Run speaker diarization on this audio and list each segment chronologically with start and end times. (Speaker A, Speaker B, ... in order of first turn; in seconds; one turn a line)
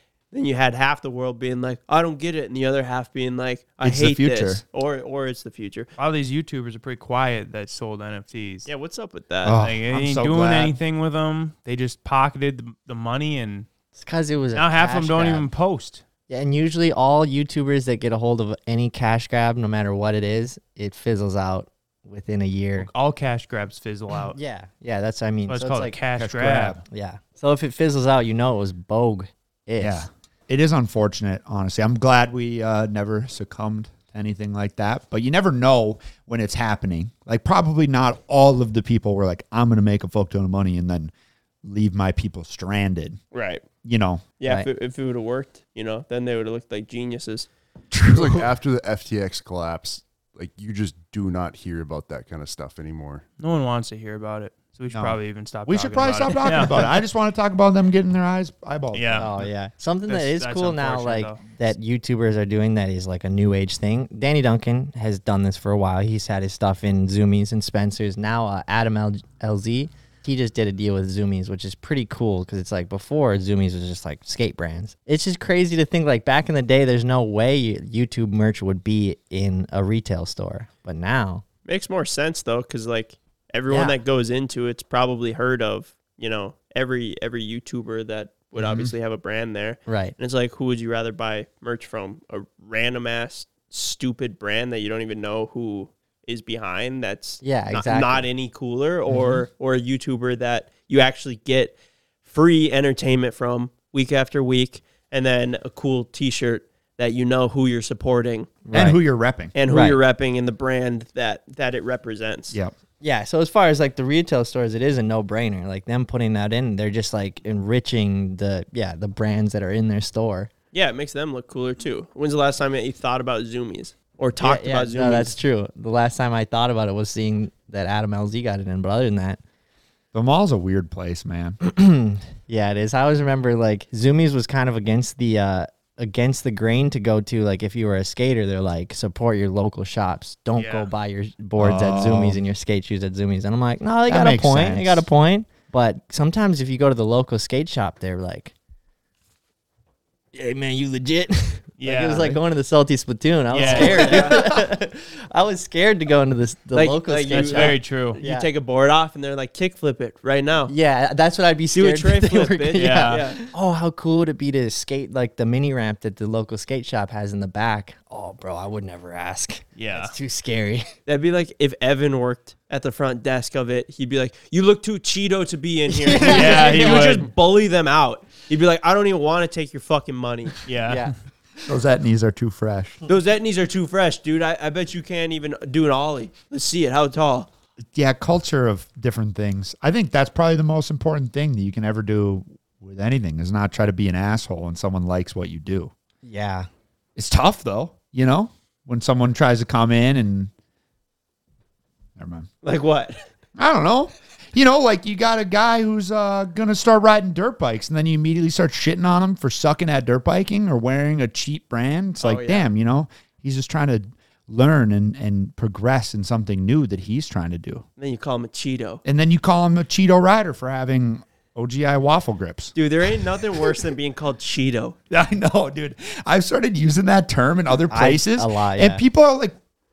Speaker A: 0.3-5.9
Speaker B: 3.8-4.6
Speaker C: 6.0-8.7
Speaker A: 8.7-9.6
Speaker B: 9.4-10.8
Speaker C: 9.6-13.7
Speaker D: 14.0-15.5
Speaker C: 14.6-16.0
Speaker D: 16.3-22.9
Speaker C: 22.8-24.4
Speaker D: 24.3-25.9
Speaker C: 25.5-26.8
Speaker B: 26.2-26.8
Speaker D: 26.9-30.1
Speaker B: 29.8-41.1
Speaker B: 41.6-43.2
Speaker A: 43.3-43.7
Speaker B: 43.8-44.2
Speaker A: 44.4-47.5
Speaker B: 47.9-48.5
Speaker E: 48.1-53.2
Speaker C: 53.4-56.9
Speaker B: 54.9-59.3
Speaker C: 58.9-59.5
Speaker D: 59.2-81.4
Speaker C: 60.1-61.4
Speaker A: 81.7-108.5
Speaker D: 83.7-84.0
Speaker B: 88.6-88.9
Speaker D: 89.9-90.2
Speaker D: 97.4-98.3
Speaker B: 99.1-99.4
Speaker D: 108.7-109.0
Speaker B: 108.7-109.5
Speaker A: 109.5-112.6
Speaker D: 109.7-110.0
Speaker D: 113.0-120.5
Speaker A: 120.7-125.3
Speaker D: 124.4-129.4
Speaker B: 130.1-131.6
Speaker D: 131.6-148.5
Speaker C: 140.6-140.9
Speaker B: 141.6-142.4
Speaker B: 144.1-145.1
Speaker D: 150.3-158.5
Speaker C: 151.8-152.4
Speaker C: 153.5-154.4
Speaker A: 153.7-154.4
Speaker A: 156.7-160.7
Speaker C: 157.3-158.2
Speaker D: 160.7-170.9
Speaker A: 161.7-163.5
Speaker C: 162.8-163.3
Speaker C: 169.8-170.1
Speaker A: 171.1-180.6
Speaker D: 175.9-177.1
Speaker C: 176.2-177.3
Speaker C: 180.7-181.1
Speaker B: 181.7-183.0
Speaker A: 183.1-187.5
Speaker B: 187.9-195.9
Speaker D: 196.2-196.7
Speaker B: 197.2-200.5
Speaker B: 202.2-202.5
Speaker A: 202.6-203.2
Speaker B: 203.6-217.8
Speaker A: 212.2-212.7
Speaker A: 218.0-219.0
Speaker B: 219.1-222.8
Speaker A: 222.8-225.0
Speaker B: 225.1-229.6
Speaker D: 227.9-229.0